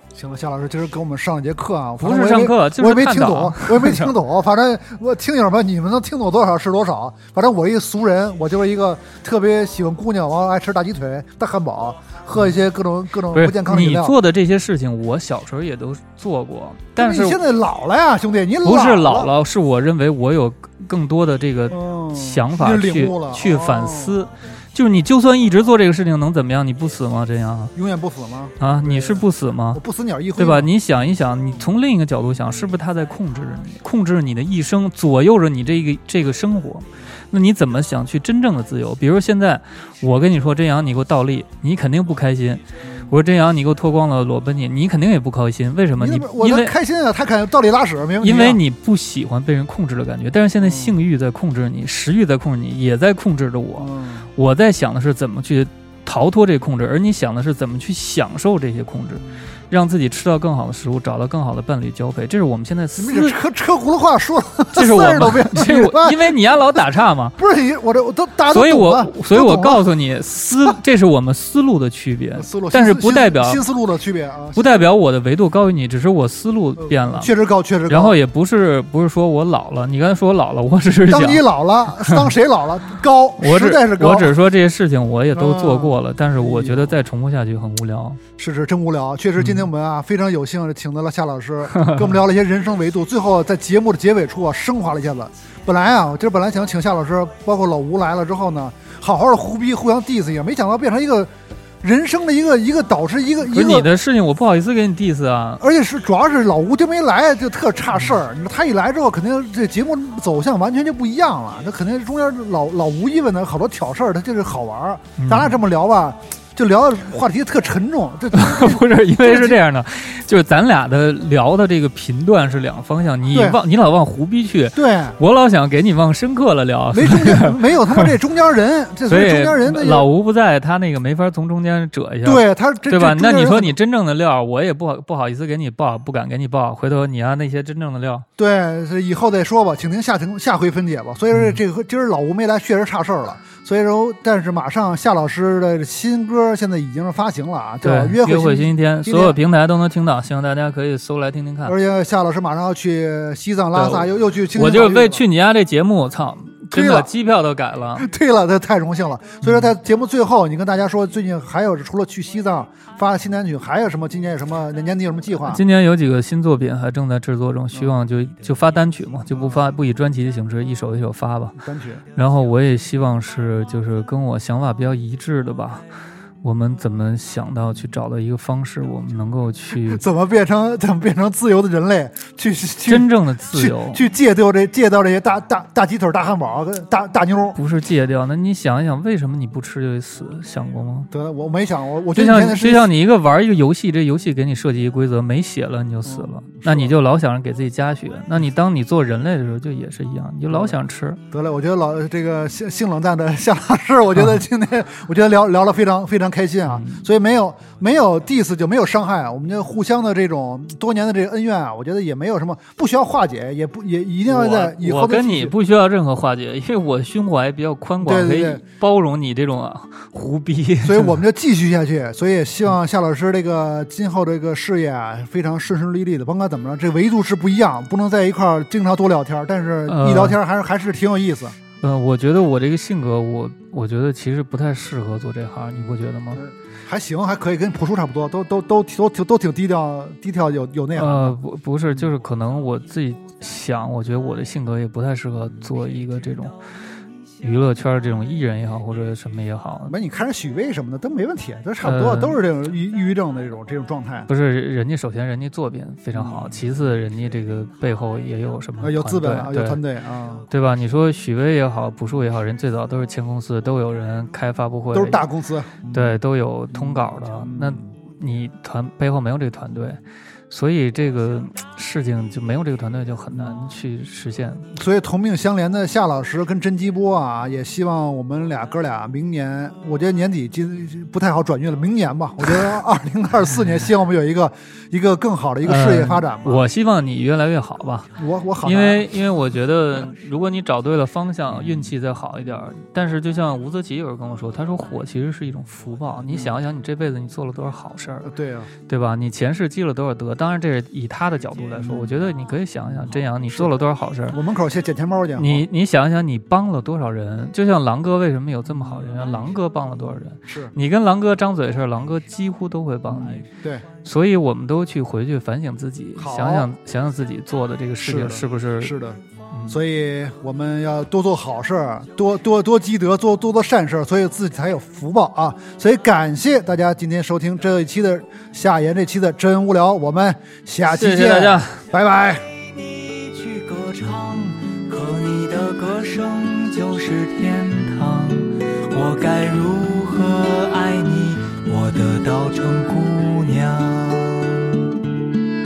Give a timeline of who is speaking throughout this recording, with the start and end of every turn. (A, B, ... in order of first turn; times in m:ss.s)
0:00.2-0:14.1 A
0:02.0-0:04.1 B
0:13.3-0:17.4 B
0:17.0-0:19.3 A
0:18.6-0:27.7 B
0:21.7-0:24.3 A
0:27.8-0:30.7 A
0:28.6-0:29.8 B
0:30.4-0:46.7 B
0:42.8-0:43.1 A
0:46.0-0:48.6 A
0:48.2-1:03.4 B
0:50.6-0:51.0 A
0:53.8-0:54.3 A
1:03.0-1:06.4 A
1:04.7-1:07.4 B
1:07.4-1:09.8 A
1:08.5-1:13.6 B
1:12.4-1:14.9 A
1:14.5-1:17.3 B
1:16.8-1:18.2 A
1:17.9-1:22.3 B
1:21.1-1:24.3 A
1:23.4-1:28.2 B
1:25.3-1:26.9 A
1:28.4-1:41.3 A
1:29.4-1:29.6 B
1:41.8-1:43.9 A
1:43.4-1:45.6 B
1:45.6-1:59.6 A
1:55.2-1:55.6 B
1:58.3-2:08.1 B
2:03.3-2:03.6 A
2:04.7-2:05.2 A
2:06.9-2:10.1 A
2:09.1-2:18.2 B
2:12.2-2:13.8 A
2:18.4-2:29.4 A
2:21.3-2:21.6 B
2:27.8-2:31.8 B
2:31.6-2:35.2 A
2:33.7-2:38.1 B
2:36.7-2:37.1 A
2:38.0-2:45.6 A
2:39.4-2:39.7 B
2:45.4-2:51.6 B
2:49.3-2:49.6 A
2:51.6-2:52.0 A
2:52.1-2:55.8 B
2:56.4-3:00.0 B
2:59.8-3:07.6 A
3:02.8-3:04.1 B
3:07.5-3:11.1 B
3:11.1-3:12.9 A
3:12.1-3:21.2 B
3:16.0-3:16.9 A
3:20.5-3:20.8 A
3:21.3-3:35.5 A
3:26.6-3:27.1 B
3:34.3-3:41.2 B
3:38.0-3:38.6 A
3:40.8-3:51.6 A
3:49.9-3:50.4 B
3:51.8-3:56.4 B
3:56.3-4:01.4 A
4:00.9-4:06.6 B
4:07.4-4:09.9 B
4:09.9-4:14.3 A
4:11.8-4:12.4 B
4:14.3-4:19.8 B
4:16.1-4:16.6 A
4:18.8-4:20.4 A
4:20.5-4:25.3 B
4:24.9-4:26.2 A
4:25.9-4:34.7 B
4:26.7-4:27.9 A
4:33.3-4:33.6 A
4:34.7-4:46.6 A
4:45.6-4:58.3 B
4:48.1-4:49.1 A
4:56.3-4:56.6 A
4:58.2-4:58.7 A
4:58.9-5:04.4 B
5:01.8-5:02.1 A
5:03.4-5:03.7 A
5:04.3-5:05.6 A
5:05.4-5:13.5 B
5:10.5-5:10.7 A
5:13.1-5:13.8 A
5:14.0-5:19.0 B
5:16.2-5:16.7 A
5:18.0-5:32.4 A
5:19.5-5:19.8 B
5:30.8-5:31.8 B
5:32.5-5:44.8 C